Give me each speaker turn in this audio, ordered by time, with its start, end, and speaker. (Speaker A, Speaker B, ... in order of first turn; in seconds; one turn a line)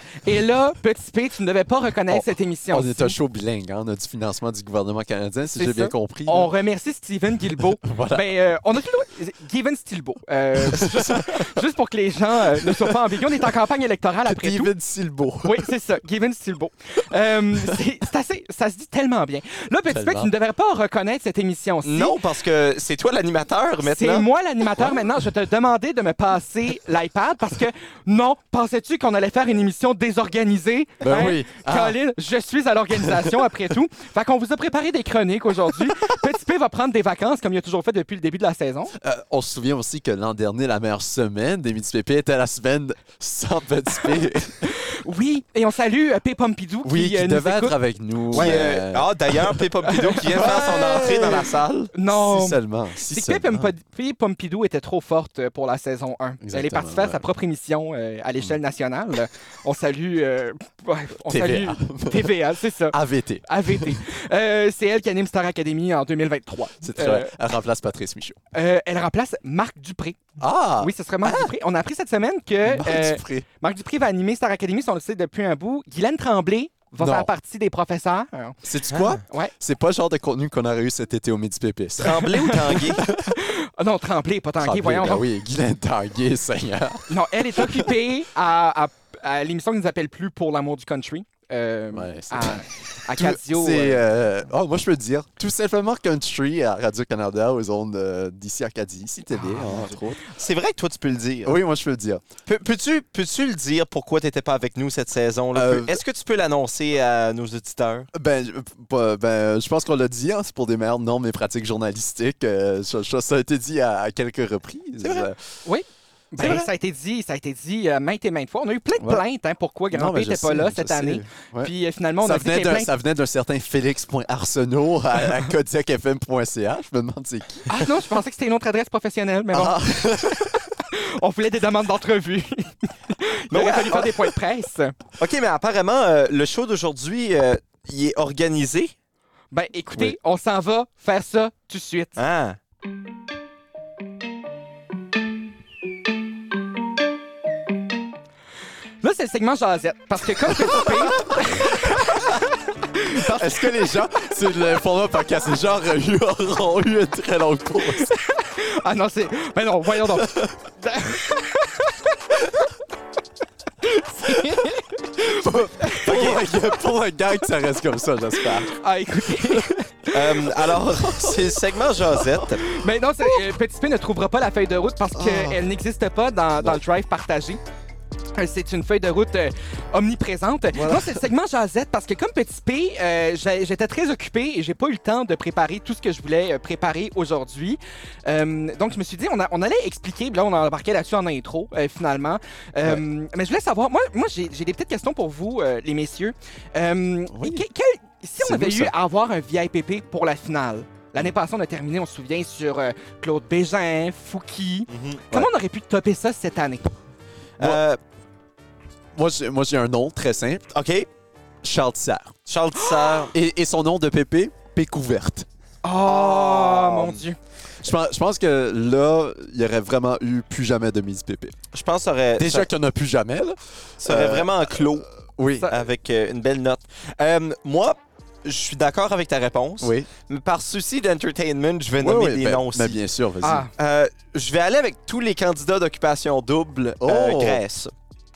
Speaker A: 0.2-3.1
Speaker B: 2.1-6.5
Speaker A: 5.5-14.7
Speaker B: 7.8-8.3
Speaker B: 10.7-11.5
Speaker B: 12.6-12.9
Speaker B: 14.2-15.7
Speaker A: 15.4-22.2
Speaker B: 17.5-17.8
Speaker B: 19.9-20.3
Speaker C: 21.8-24.3
Speaker A: 23.8-38.9
Speaker B: 31.0-32.0
Speaker B: 32.9-33.5
Speaker B: 39.0-44.7
Speaker A: 44.7-47.8
Speaker B: 46.8-49.7
Speaker C: 48.3-51.9
Speaker A: 48.3-48.7
Speaker A: 49.9-51.4
Speaker B: 50.3-51.5
Speaker A: 51.9-67.3
Speaker B: 52.1-53.7
Speaker B: 56.4-57.2
Speaker B: 61.2-62.4
Speaker B: 62.9-64.0
Speaker B: 66.8-68.4
Speaker A: 68.5-70.2
Speaker B: 70.4-71.5
Speaker A: 70.8-78.5
Speaker B: 72.6-73.5
Speaker B: 77.0-77.3
Speaker B: 78.6-82.3
Speaker C: 78.9-79.2
Speaker A: 79.2-79.5
Speaker C: 82.0-83.0
Speaker A: 82.2-85.2
Speaker B: 83.0-83.3
Speaker B: 84.6-87.9
Speaker A: 87.1-94.0
Speaker B: 91.9-100.2
Speaker A: 99.3-100.0
Speaker C: 100.3-101.5
Speaker B: 101.4-102.2
Speaker C: 102.5-108.1
Speaker B: 105.5-106.0
Speaker B: 108.1-115.4
Speaker A: 115.7-122.9
Speaker B: 116.4-116.7
Speaker B: 119.9-127.9
Speaker A: 127.7-129.8
Speaker B: 129.5-130.6
Speaker A: 130.4-134.9
Speaker C: 133.5-134.3
Speaker C: 135.2-138.9
Speaker A: 139.5-142.2
Speaker C: 142.2-142.6
Speaker A: 149.0-152.3
Speaker B: 150.6-151.3
Speaker A: 152.9-153.7
Speaker B: 153.2-158.1
Speaker A: 158.0-161.9
Speaker B: 160.0-160.5
Speaker A: 163.8-165.2
Speaker B: 164.3-164.7
Speaker B: 165.2-168.7
Speaker A: 165.8-166.4
Speaker C: 166.1-166.4
Speaker A: 168.7-170.1
Speaker C: 170.1-172.6
Speaker B: 171.0-171.6
Speaker B: 172.2-172.5
Speaker A: 172.6-177.6
Speaker B: 175.1-175.6
Speaker A: 178.3-206.9
Speaker B: 180.7-181.3
Speaker B: 197.3-197.7
Speaker B: 198.4-198.9
Speaker C: 204.9-205.2
Speaker C: 207.6-208.0
Speaker B: 209.1-210.7
Speaker C: 210.7-211.1
Speaker B: 211.6-212.3
Speaker C: 212.5-213.3
Speaker A: 212.7-213.3
Speaker B: 213.3-215.5
Speaker A: 215.8-217.4
Speaker C: 216.1-217.2
Speaker B: 217.8-221.6
Speaker C: 221.7-222.7
Speaker B: 222.4-224.8
Speaker C: 224.0-225.1
Speaker B: 225.4-225.7
Speaker C: 225.7-233.0
Speaker B: 229.8-230.1
Speaker B: 232.0-233.7
Speaker A: 233.4-233.7
Speaker C: 233.7-237.9
Speaker B: 237.0-237.6